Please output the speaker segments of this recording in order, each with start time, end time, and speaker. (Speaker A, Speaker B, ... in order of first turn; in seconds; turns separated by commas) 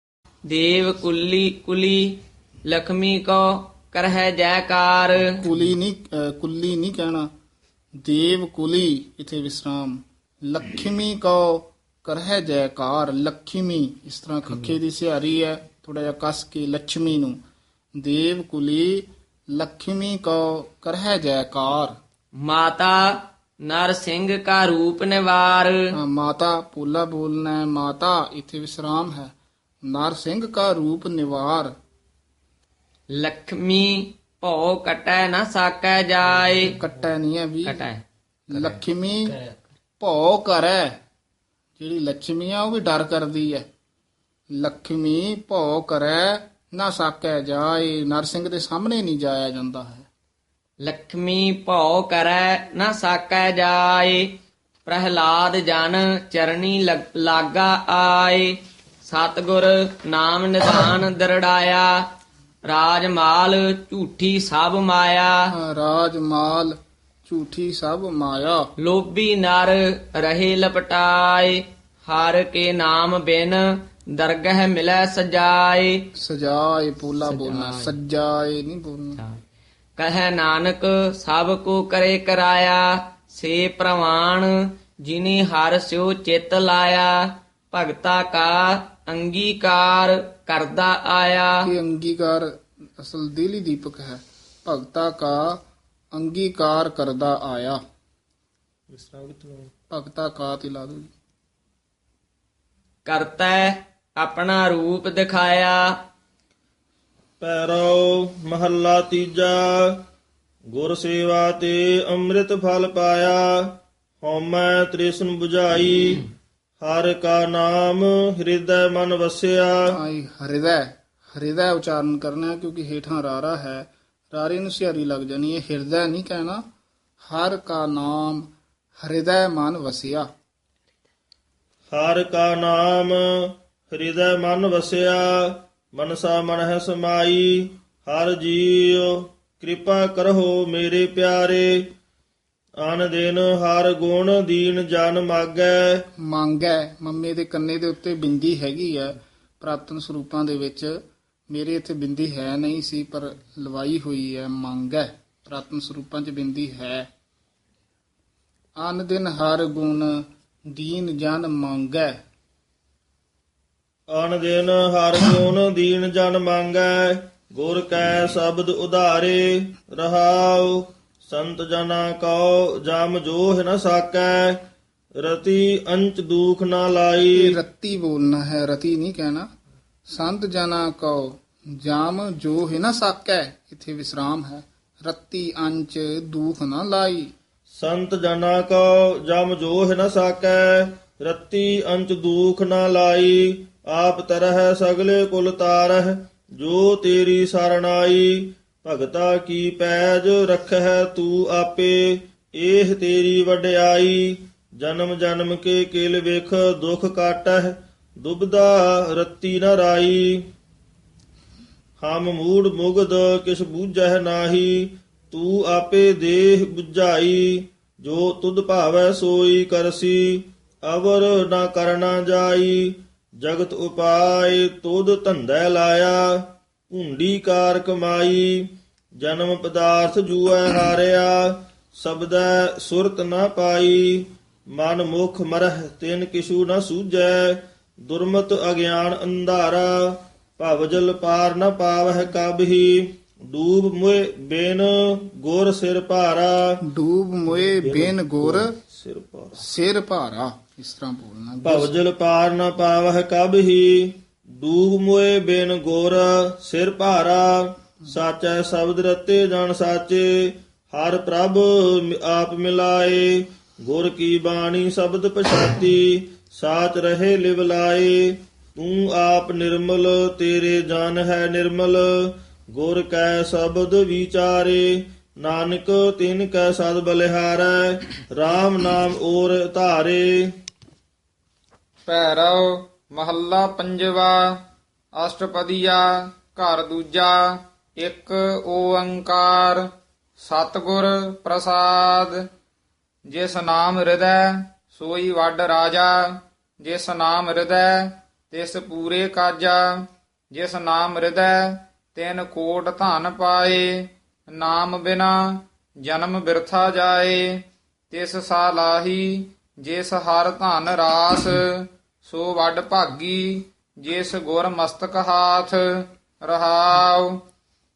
Speaker A: 0.5-5.3, Speaker B: 5.4-7.3, Speaker B: 8.0-17.4, Speaker B: 18.0-22.0, Speaker A: 22.4-25.9, Speaker B: 25.9-29.3, Speaker B: 29.9-31.7, Speaker A: 33.1-36.7, Speaker B: 36.7-37.8, Speaker A: 37.6-38.0, Speaker B: 38.5-39.4, Speaker B: 40.0-41.0, Speaker B: 41.8-43.6, Speaker B: 44.6-50.1, Speaker A: 50.8-62.1, Speaker A: 62.7-65.4, Speaker B: 65.5-68.6, Speaker A: 68.8-76.1, Speaker B: 76.2-79.2, Speaker A: 77.2-77.9, Speaker A: 80.0-84.5, Speaker A: 85.0-91.7, Speaker B: 91.6-92.5, Speaker B: 93.0-95.6, Speaker B: 96.1-97.8, Speaker C: 98.9-99.7, Speaker B: 99.9-101.1, Speaker A: 103.0-105.9, Speaker C: 107.4-110.0, Speaker C: 110.7-116.2, Speaker C: 116.8-119.9, Speaker B: 119.9-126.6, Speaker B: 127.3-128.5, Speaker B: 129.0-130.3, Speaker C: 131.9-141.8, Speaker C: 142.8-146.0, Speaker B: 146.3-150.9, Speaker B: 151.5-157.1, Speaker B: 158.8-162.2, Speaker C: 164.1-174.6, Speaker C: 175.2-177.6, Speaker B: 177.3-179.5, Speaker B: 180.1-187.3, Speaker C: 187.7-210.4, Speaker C: 212.0-228.7, Speaker C: 229.2-246.7, Speaker B: 246.9-248.7, Speaker C: 247.5-249.7, Speaker B: 249.6-251.9, Speaker C: 251.6-280.5, Speaker D: 282.1-284.6, Speaker D: 285.2-289.8, Speaker D: 290.4-292.4, Speaker D: 293.3-317.4